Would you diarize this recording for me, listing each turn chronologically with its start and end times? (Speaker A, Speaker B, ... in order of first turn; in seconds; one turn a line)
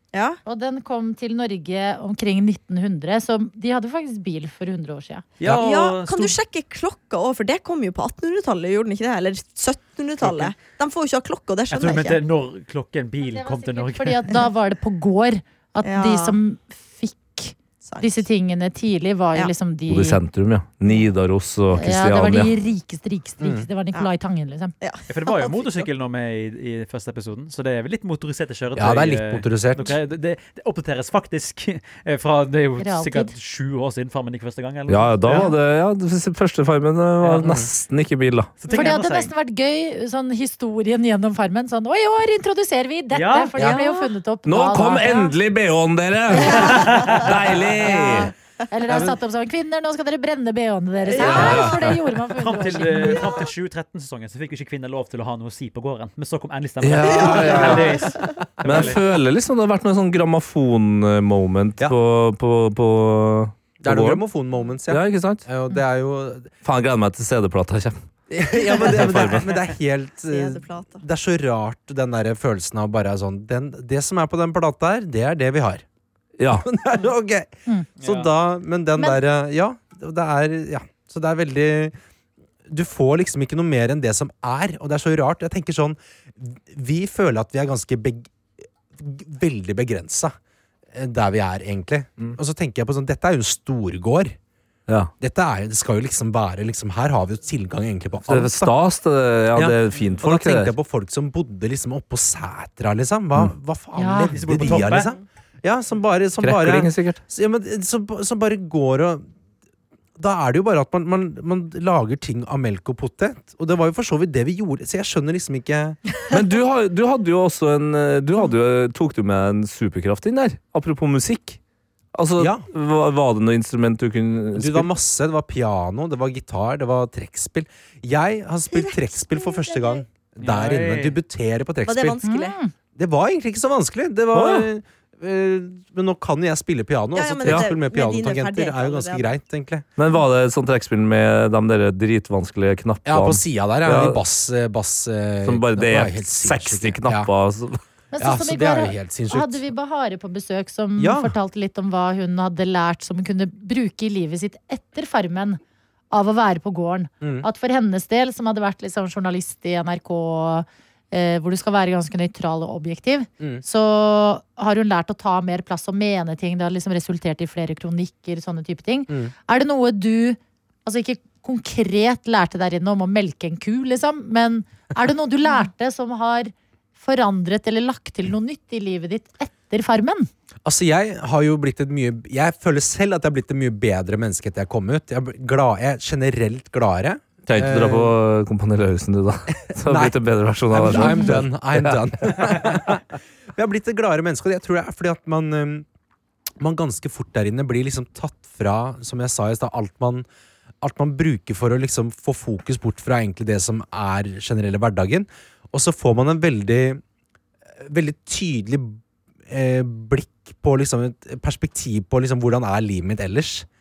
Speaker A: 0.1-0.4
Speaker B: 0.5-5.2
Speaker C: 5.4-6.4
Speaker A: 5.4-12.2
Speaker C: 10.2-10.5
Speaker C: 11.7-14.3
Speaker B: 13.2-20.2
Speaker A: 15.8-16.4
Speaker A: 17.8-18.2
Speaker D: 19.9-22.5
Speaker B: 21.7-24.7
Speaker E: 23.4-23.7
Speaker A: 24.8-25.9
Speaker C: 25.1-35.5
Speaker E: 28.8-30.0
Speaker B: 32.8-33.3
Speaker D: 34.9-38.6
Speaker C: 37.2-37.5
Speaker E: 37.4-37.7
Speaker C: 38.6-39.3
Speaker B: 38.7-45.3
Speaker C: 43.1-43.6
Speaker A: 43.6-44.1
Speaker D: 44.5-48.3
Speaker B: 46.3-47.3
Speaker C: 46.5-47.2
Speaker B: 47.8-53.2
Speaker E: 48.9-49.2
Speaker A: 51.1-51.8
Speaker D: 51.2-52.0
Speaker C: 52.4-59.0
Speaker D: 56.8-58.0
Speaker E: 57.3-57.8
Speaker D: 58.6-64.2
Speaker E: 63.8-66.5
Speaker D: 64.9-65.5
Speaker D: 66.6-68.0
Speaker E: 68.3-75.8
Speaker D: 68.7-69.5
Speaker A: 70.3-71.0
Speaker D: 76.4-76.7
Speaker E: 76.5-82.0
Speaker C: 78.0-78.3
Speaker E: 82.7-88.3
Speaker E: 88.9-90.3
Speaker E: 90.9-94.4
Speaker E: 95.2-98.8
Speaker D: 98.3-100.7
Speaker E: 99.5-109.2
Speaker B: 104.0-104.4
Speaker C: 104.3-105.1
Speaker A: 104.9-105.2
Speaker D: 106.4-107.2
Speaker E: 110.2-116.0
Speaker D: 116.3-121.6
Speaker D: 122.2-124.9
Speaker E: 122.4-122.7
Speaker E: 124.6-132.2
Speaker A: 128.7-130.0
Speaker C: 130.4-131.2
Speaker A: 131.9-132.6
Speaker B: 132.2-132.7
Speaker E: 133.0-139.9
Speaker D: 134.3-134.7
Speaker A: 137.1-139.2
Speaker D: 140.0-144.2
Speaker E: 143.1-147.3
Speaker D: 145.4-147.8
Speaker B: 148.1-155.6
Speaker E: 148.2-149.6
Speaker E: 151.0-151.3
Speaker B: 156.1-180.3
Speaker E: 157.2-157.5
Speaker E: 180.7-188.1
Speaker D: 187.5-192.8
Speaker E: 189.8-190.2
Speaker E: 190.7-193.0
Speaker B: 190.9-191.3
Speaker E: 193.6-195.9
Speaker E: 196.6-200.3
Speaker E: 200.8-207.0
Speaker E: 207.8-213.7